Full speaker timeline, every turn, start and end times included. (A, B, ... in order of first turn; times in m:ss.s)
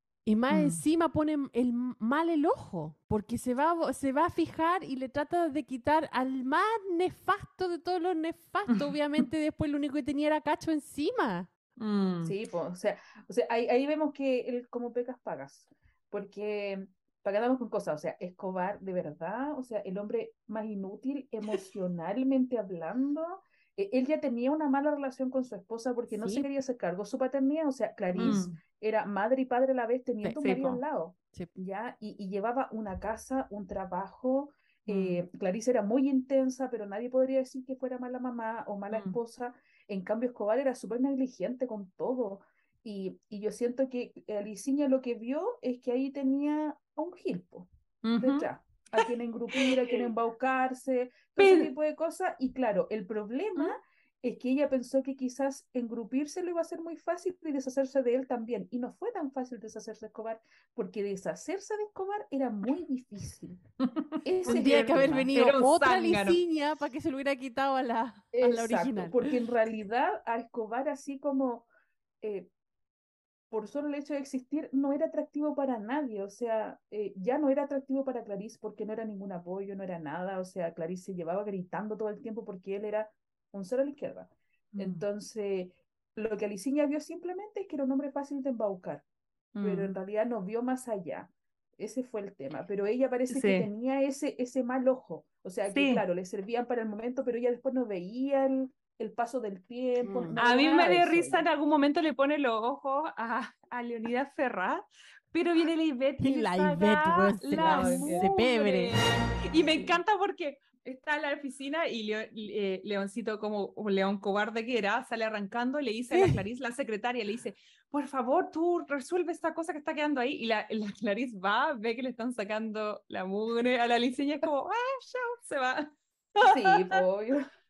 0:00.3-0:11.5 A
0:00.5-0:00.8 B
0:11.8-0:12.3 B
0:12.2-1:03.6 C
0:26.1-0:26.5 A
0:28.2-0:28.6 B
0:30.4-0:30.8 B
0:34.9-0:35.2 B
0:38.9-0:39.2 B
0:48.0-0:50.0 B
0:51.4-0:51.7 B
1:03.8-1:04.8 B
1:04.2-1:05.3 C
1:04.4-1:09.3 A
1:05.3-1:06.4 B
1:08.3-1:11.7 C
1:12.2-1:12.5 C
1:13.5-1:29.0 C
1:24.8-1:25.0 B
1:29.6-1:29.9 B
1:29.6-1:41.5 C
1:33.3-1:33.7 B
1:35.7-1:36.0 B
1:40.0-1:40.4 A
1:40.4-2:07.0 B
1:46.2-1:49.0 A
1:47.5-1:48.3 C
1:56.1-1:56.4 A
2:06.4-2:07.5 C